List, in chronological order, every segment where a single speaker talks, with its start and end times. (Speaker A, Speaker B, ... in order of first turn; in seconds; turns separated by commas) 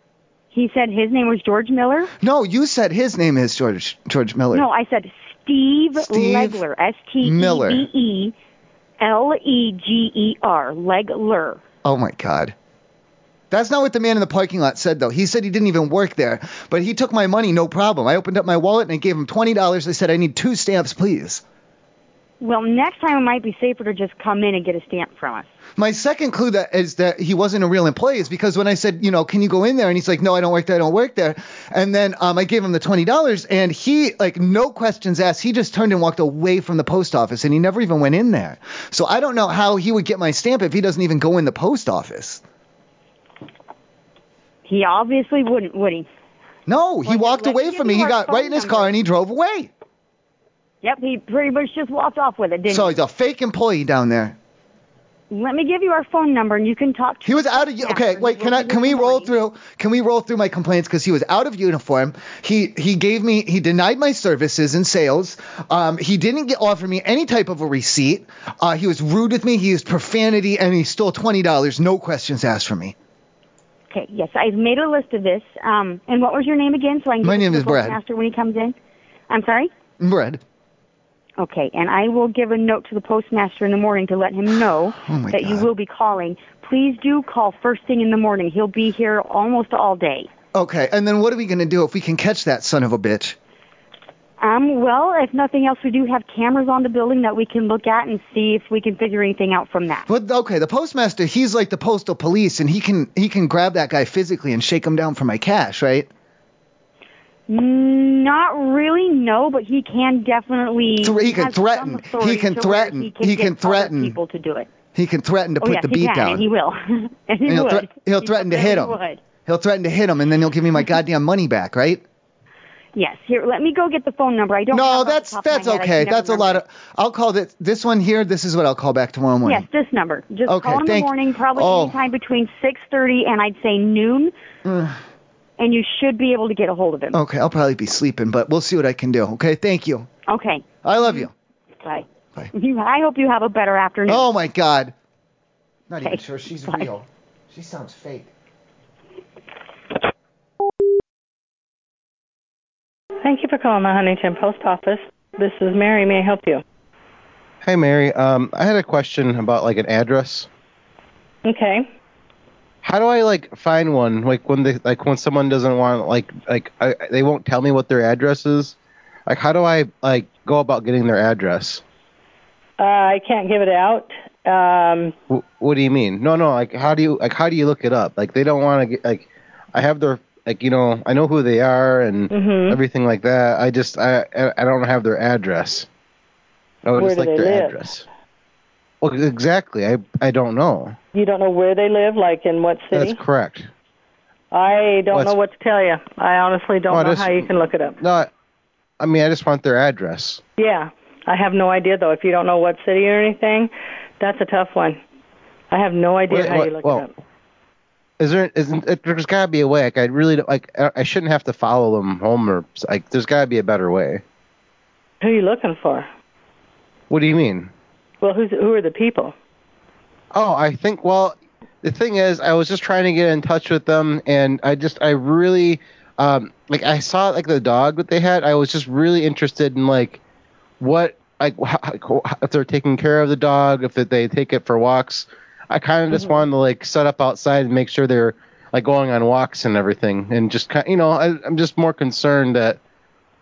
Speaker A: 0.5-2.1, Speaker B: 2.2-4.7, Speaker A: 4.5-8.3, Speaker B: 6.0-6.6, Speaker B: 7.2-7.9, Speaker A: 9.0-11.6, Speaker B: 11.8-12.6, Speaker B: 13.5-21.4, Speaker A: 22.4-25.5, Speaker B: 25.8-42.4, Speaker A: 44.7-46.1, Speaker B: 46.7-49.7, Speaker A: 47.1-48.9, Speaker A: 50.8-52.9, Speaker B: 52.7-54.4, Speaker A: 55.3-59.3, Speaker B: 57.2-73.0, Speaker A: 73.9-78.8, Speaker B: 77.2-78.0, Speaker A: 79.3-79.7, Speaker B: 80.0-80.4, Speaker A: 81.4-90.3, Speaker B: 85.0-85.7, Speaker B: 90.5-93.4, Speaker A: 94.4-100.1, Speaker B: 100.1-106.1, Speaker A: 107.5-114.7, Speaker B: 111.0-114.2, Speaker B: 115.0-116.4, Speaker A: 115.6-119.2, Speaker B: 117.5-122.0, Speaker A: 123.0-126.6, Speaker B: 124.7-129.7, Speaker A: 129.4-134.3, Speaker B: 130.5-131.9, Speaker B: 134.7-135.0, Speaker A: 135.6-137.2, Speaker B: 137.1-140.1, Speaker A: 140.3-141.3, Speaker B: 140.8-141.3, Speaker A: 141.8-144.3, Speaker B: 144.1-144.9, Speaker B: 145.9-148.3, Speaker A: 146.0-146.9, Speaker C: 153.2-156.6, Speaker D: 157.6-160.5, Speaker C: 161.4-161.9, Speaker D: 162.8-168.8, Speaker D: 169.3-171.8, Speaker C: 172.8-175.2, Speaker D: 175.3-185.9, Speaker C: 182.3-182.8, Speaker D: 186.8-188.1, Speaker C: 187.0-187.8, Speaker D: 189.0-191.0, Speaker C: 191.2-193.2, Speaker D: 192.9-193.7, Speaker C: 194.5-198.0, Speaker D: 196.9-197.5, Speaker D: 198.0-198.3, Speaker D: 199.0-200.4, Speaker C: 200.6-205.0, Speaker C: 205.7-207.1, Speaker D: 206.3-207.0, Speaker D: 208.2-214.2, Speaker C: 215.2-216.1, Speaker D: 217.1-217.7, Speaker C: 218.2-219.3, Speaker D: 220.3-230.2, Speaker D: 230.8-242.8, Speaker C: 236.1-236.4